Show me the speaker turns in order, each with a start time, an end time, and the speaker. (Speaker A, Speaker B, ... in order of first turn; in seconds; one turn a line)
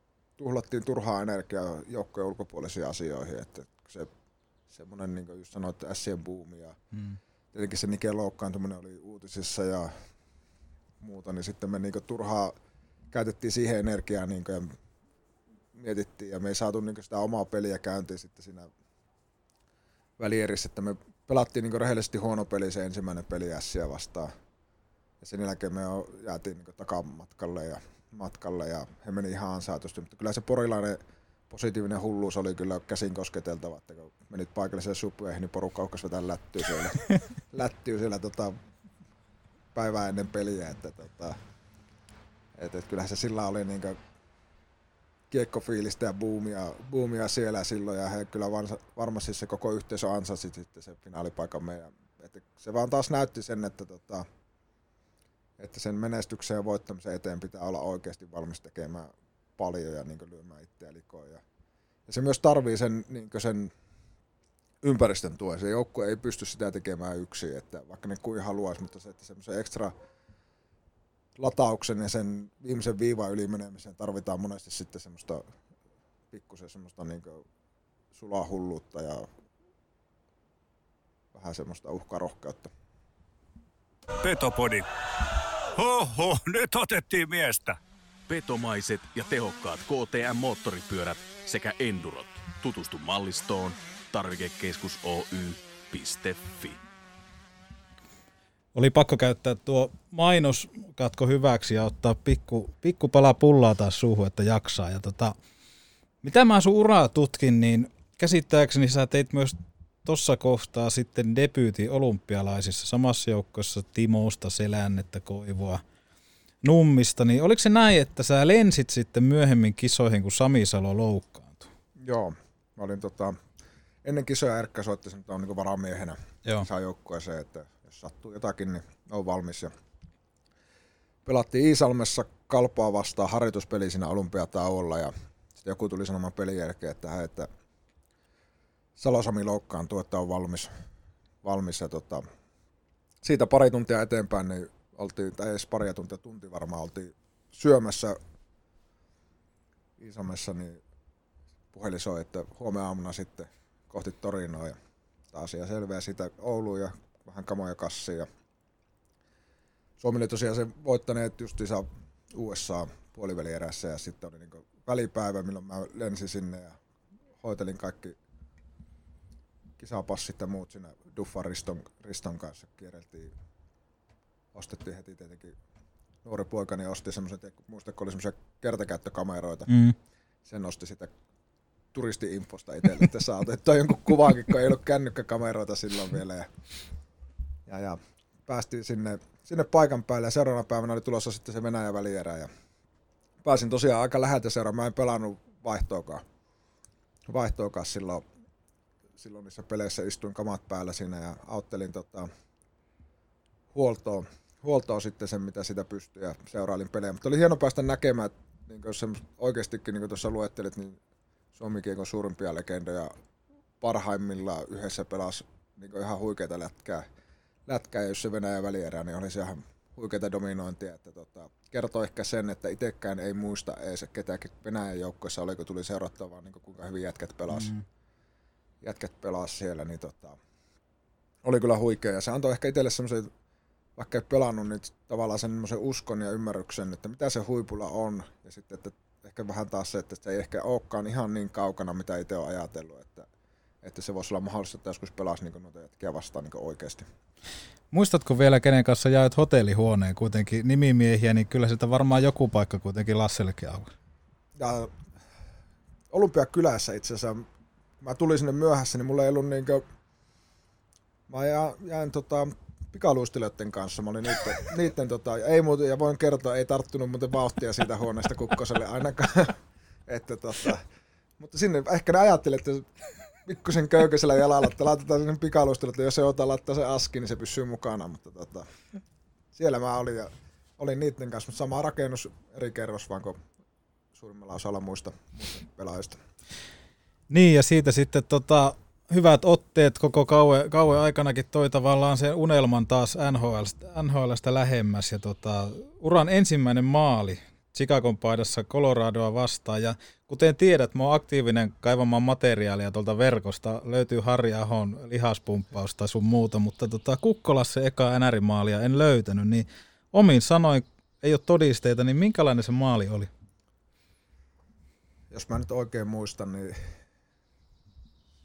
Speaker A: 0.4-4.1
Speaker A: 4.7-6.8
Speaker B: 6.9-7.2
Speaker A: 7.5-9.9
Speaker A: 11.0-12.6
Speaker A: 13.1-14.7
Speaker A: 15.8-18.7
Speaker A: 20.2-24.3
Speaker A: 25.2-31.0
Speaker A: 31.5-38.6
Speaker A: 39.7-41.4
Speaker A: 42.6-44.0
Speaker A: 45.3-54.3
Speaker A: 55.6-61.4
Speaker A: 62.1-63.7
Speaker A: 64.8-69.9
Speaker A: 71.4-75.4
Speaker A: 76.3-77.5
Speaker A: 78.1-79.3
Speaker A: 81.3-82.7
Speaker C: 84.2-84.9
Speaker C: 85.8-87.8
Speaker D: 88.3-96.8
Speaker B: 98.8-105.4
Speaker B: 106.2-115.8
Speaker B: 116.6-121.7
Speaker A: 122.0-123.4
Speaker A: 124.0-129.7
Speaker A: 131.2-137.5
Speaker A: 139.0-140.7
Speaker A: 141.4-142.2
Speaker A: 143.2-148.2
Speaker A: 150.0-150.8
Speaker A: 151.7-154.8
Speaker A: 155.3-158.3
Speaker A: 160.0-166.8
Speaker A: 167.4-168.2
Speaker A: 169.8-173.3
Speaker A: 174.5-175.6
Speaker A: 176.2-179.8
Speaker B: 179.7-179.9
Speaker A: 180.4-181.1
Speaker A: 181.9-186.5
Speaker A: 187.7-192.5
Speaker A: 193.4-196.2
Speaker A: 197.3-198.2
Speaker A: 199.2-202.3
Speaker A: 203.7-211.0
Speaker A: 211.6-213.1
Speaker A: 213.8-217.1
Speaker A: 217.7-227.7
Speaker B: 227.5-227.8
Speaker A: 228.8-230.4
Speaker A: 231.4-233.3
Speaker A: 234.0-243.3
Speaker A: 243.8-247.1
Speaker B: 247.9-253.9
Speaker A: 254.6-254.9
Speaker A: 256.1-257.5
Speaker A: 258.0-259.9
Speaker A: 261.3-270.9
Speaker A: 271.4-272.9
Speaker A: 273.4-278.7
Speaker A: 279.5-283.4
Speaker A: 284.1-286.2
Speaker B: 287.3-313.3
Speaker A: 315.3-316.9